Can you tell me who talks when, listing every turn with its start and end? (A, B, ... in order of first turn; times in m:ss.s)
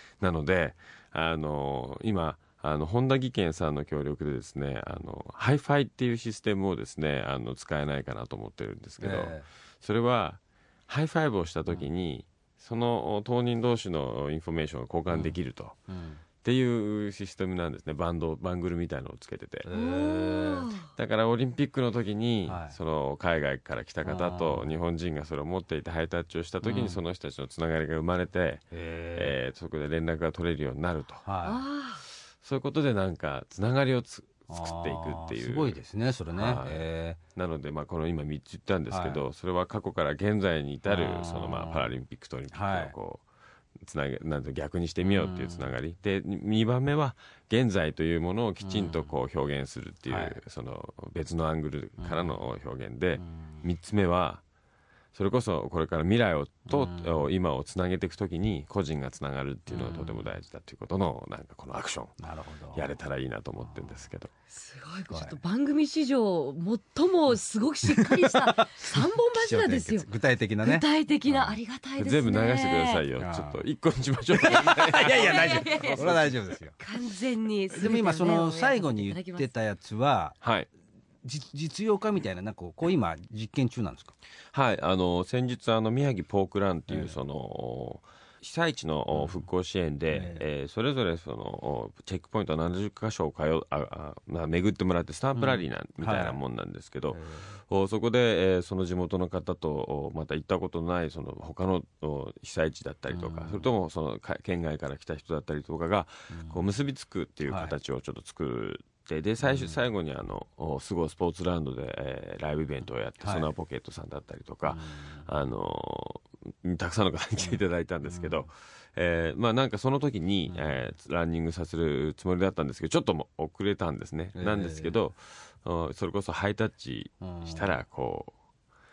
0:00.2-0:15.8 A
0:09.0-0:09.5 B
0:15.1-0:15.4 B
0:15.9-0:16.2 B
0:16.4-0:19.7 A
0:19.6-0:20.7 B
0:19.7-0:20.9 C
0:20.9-0:31.3 A
0:22.5-0:22.8 B
0:24.0-0:24.7 B
0:26.6-0:27.0 B
0:28.7-0:29.4 B
0:31.2-0:31.6 B
0:31.4-0:32.0 C
0:32.4-0:35.8 A
0:34.5-0:37.2 B
0:36.3-0:43.2 A
0:38.9-0:39.2 B
0:40.8-0:41.9 B
0:42.5-0:43.0 B
0:43.8-0:54.4 A
0:45.0-0:45.7 B
0:48.6-0:49.1 B
0:50.1-0:50.4 B
0:52.0-0:52.4 B
0:53.2-0:53.6 B
0:55.1-1:02.2 A
0:56.7-0:57.3 B
0:59.7-1:00.3 B
1:02.2-1:02.9 B
1:02.7-1:04.3 A
1:03.6-1:04.0 B
1:04.5-1:10.1 C
1:05.1-1:05.4 B
1:07.9-1:11.6 B
1:10.6-1:13.0 C
1:12.0-1:16.3 A
1:13.2-1:13.6 B
1:14.4-1:16.8 B
1:14.6-1:16.1 C
1:16.8-1:19.5 C
1:17.7-1:20.4 B
1:20.4-1:20.7 A
1:21.2-1:24.1 B
1:24.5-2:08.3 A
1:26.9-1:27.2 B
1:29.1-1:29.4 B
1:30.1-1:30.5 B
1:35.4-1:36.4 B
1:37.1-1:37.6 B
1:43.1-1:43.7 B
1:46.3-1:46.6 B
1:47.5-1:47.8 B
1:49.4-1:49.8 B
1:53.2-1:53.5 B
1:54.7-1:55.3 B
1:57.4-1:58.5 B
2:00.5-2:00.8 B
2:04.4-2:04.9 B
2:07.2-2:07.7 B